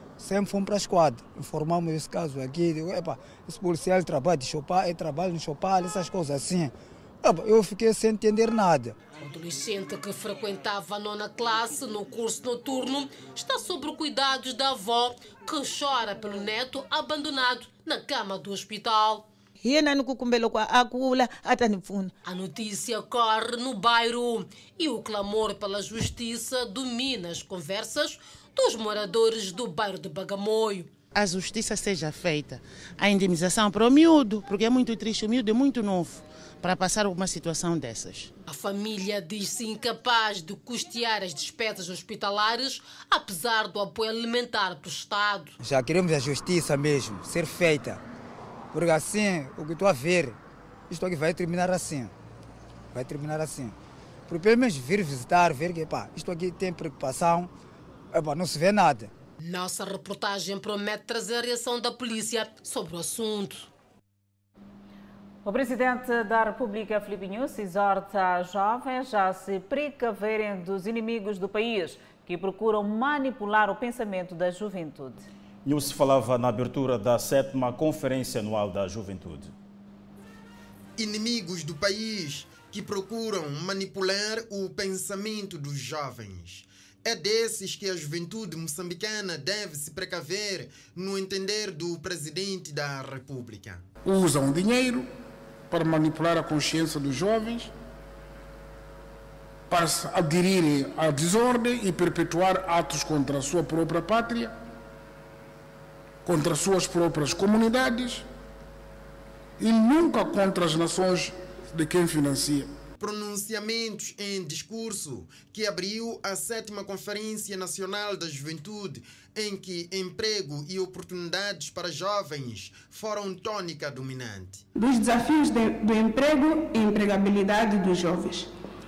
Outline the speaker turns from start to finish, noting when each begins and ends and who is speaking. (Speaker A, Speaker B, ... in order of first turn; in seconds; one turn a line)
Speaker A: 0.2-9.0
Speaker B: 9.2-19.3
Speaker B: 22.2-30.9
Speaker C: 31.1-38.3
Speaker B: 38.5-45.5
Speaker A: 45.6-48.0
Speaker A: 48.7-50.4
Speaker A: 50.9-52.1
Speaker A: 52.9-53.8
Speaker A: 54.3-57.5
Speaker A: 58.1-59.1
Speaker B: 59.4-63.7
Speaker D: 65.4-75.3
Speaker E: 75.6-79.5
Speaker F: 81.0-93.8
Speaker G: 94.0-95.1
Speaker G: 95.7-97.7
Speaker G: 99.7-104.5
Speaker G: 106.2-108.2
Speaker G: 109.6-112.7
Speaker F: 113.0-124.7
Speaker H: 124.8-128.5